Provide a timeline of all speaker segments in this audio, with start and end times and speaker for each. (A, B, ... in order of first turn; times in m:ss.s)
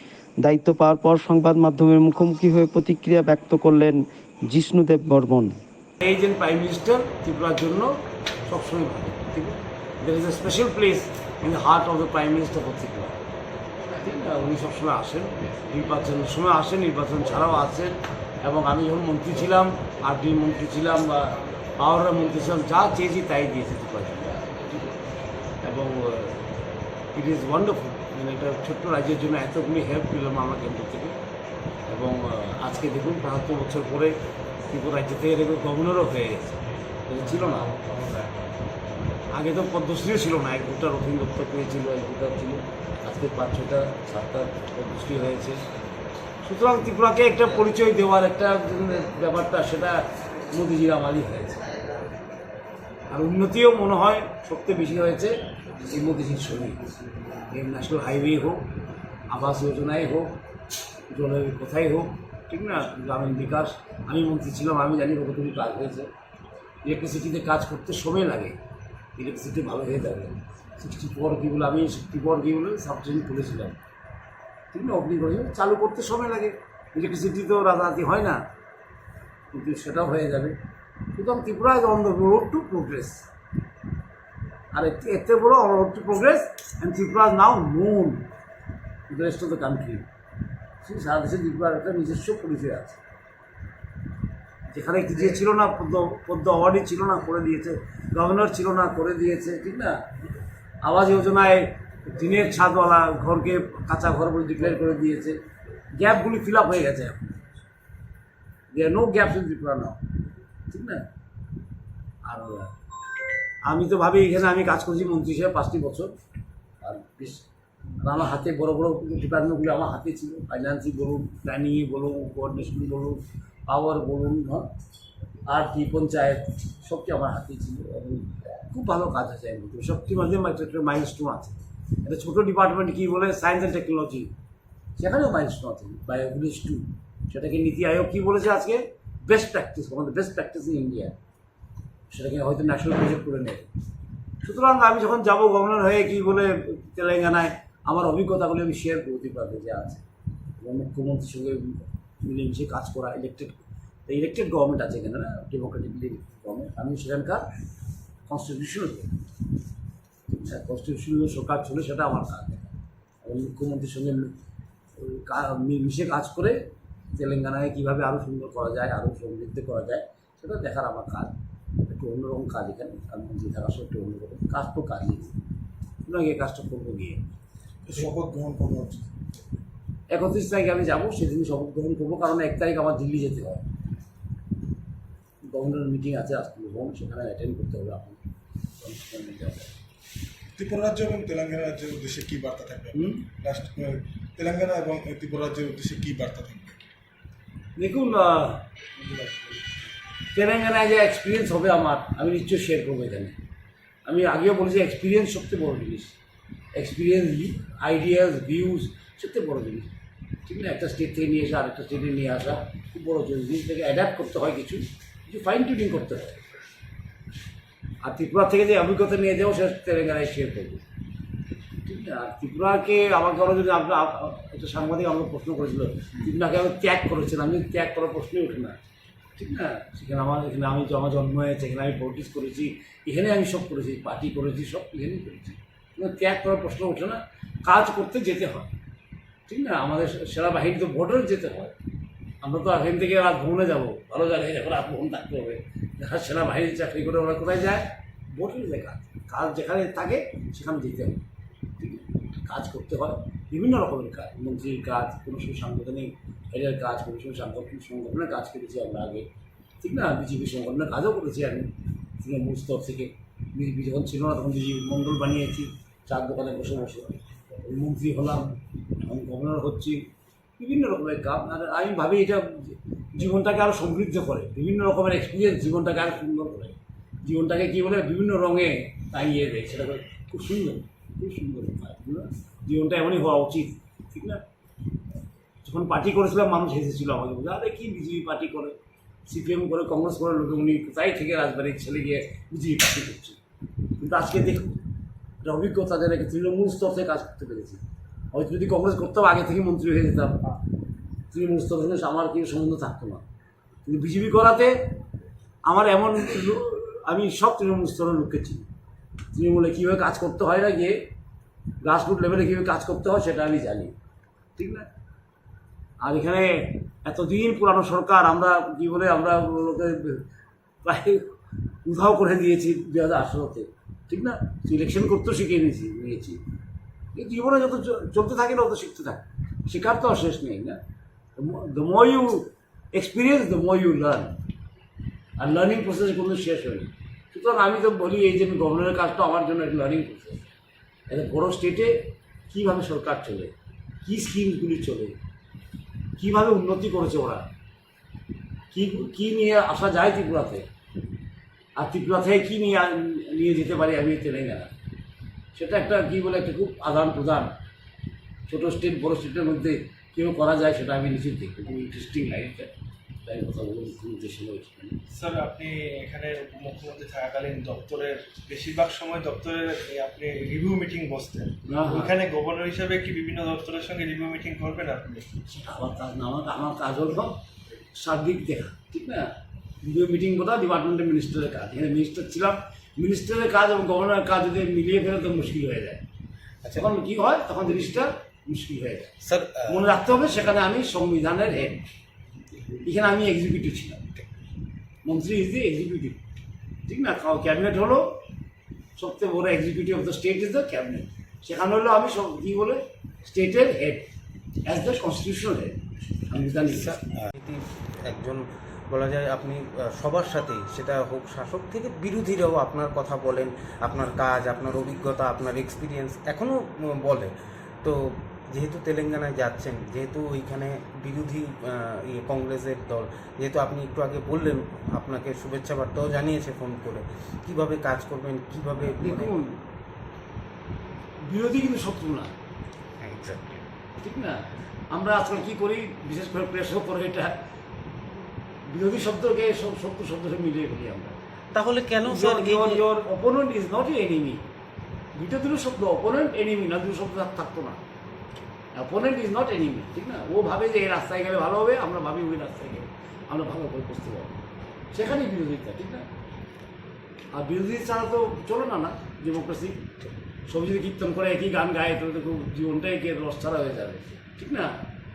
0:00.4-0:05.6 A
0:06.0-0:13.2 B
0:13.8-0:24.9 B
0:25.6-0:26.5 B
0:27.1-0:31.2 B
0:31.9-0:34.2 B
0:34.7-0:37.7 B
0:37.4-0:38.4 C
0:39.3-0:45.6 B
0:46.4-0:51.7 B
0:53.1-0:56.8 B
0:57.5-0:58.7 B
0:59.3-1:00.4 B
1:01.1-1:06.1 B
1:06.8-1:08.6 B
1:09.2-1:13.8 B
1:14.7-1:18.4 B
1:19.5-1:20.6 B
1:21.1-1:23.3 B
1:24.7-1:28.3 B
1:29.1-1:30.1 B
1:30.8-1:33.0 B
1:34.7-1:40.0 B
1:40.8-1:45.4 B
1:45.9-1:47.4 B
1:48.7-1:50.0 B
1:50.7-1:51.0 B
1:52.2-1:52.7 B
1:53.6-1:56.2 B
1:56.8-1:57.4 B
1:58.0-2:04.7 B
2:05.5-2:14.3 B
2:15.0-2:21.1 B
2:22.1-2:23.7 B
2:24.4-2:30.0 B
2:30.6-2:37.5 B
2:38.3-2:39.2 B
2:40.3-2:44.3 B
2:45.0-2:51.3 B
2:51.8-2:55.4 B
2:56.0-2:57.3 B
2:57.8-2:59.3 D
3:00.1-3:03.7 B
3:05.4-3:08.2 B
3:08.8-3:09.7 B
3:10.6-3:16.8 D
3:12.9-3:13.3 B
3:17.8-3:19.6 B
3:20.3-3:23.4 B
3:24.0-3:26.2 B
3:26.7-3:29.9 B
3:30.4-3:36.4 B
3:38.0-3:40.8 B
3:41.8-3:48.8 B
3:49.4-3:58.7 B
3:59.5-4:01.7 B
4:02.4-4:11.2 B
4:11.8-4:19.3 B
4:19.8-4:30.0 B
4:30.6-4:44.4 B
4:45.6-4:53.4 B
4:54.0-4:54.8 B
4:55.4-5:00.6 B
5:01.3-5:03.2 B
5:03.8-5:05.0 B
5:05.6-5:08.7 B
5:09.3-5:11.1 B
5:11.8-5:14.0 B
5:14.6-5:14.9 B
5:16.0-5:20.2 B
5:20.8-5:21.3 B
5:21.8-5:26.4 B
5:27.1-5:30.8 B
5:31.4-5:34.4 B
5:35.4-5:40.4 B
5:41.1-5:45.2 B
5:46.2-5:47.5 B
5:48.7-5:50.7 B
5:51.8-5:54.8 B
5:55.5-5:57.5 B
5:58.5-6:02.7 B
6:03.2-6:05.0 B
6:05.1-6:11.9 E
6:06.6-6:08.7 D
6:10.0-6:12.6 D
6:11.7-6:12.2 B
6:12.5-6:15.1 E
6:14.0-6:15.4 D
6:15.4-6:17.4 B
6:17.9-6:26.0 B
6:26.7-6:29.2 B
6:29.2-6:29.8 C
6:29.7-6:31.8 B
6:32.8-6:34.1 B
6:35.0-6:36.2 B
6:36.9-6:38.2 B
6:39.0-6:44.1 B
6:44.7-6:47.1 B
6:46.6-6:57.3 C
6:57.8-7:09.4 C
7:08.9-7:09.6 B
7:11.2-7:12.3 B
7:13.0-7:13.6 C
7:14.0-7:17.4 B
7:18.6-7:21.2 B
7:21.5-7:22.8 C
7:22.0-7:24.5 B
7:25.1-7:27.8 B
7:28.8-7:34.4 B
7:34.9-7:36.1 B
7:37.3-7:39.9 B
7:40.5-7:44.8 B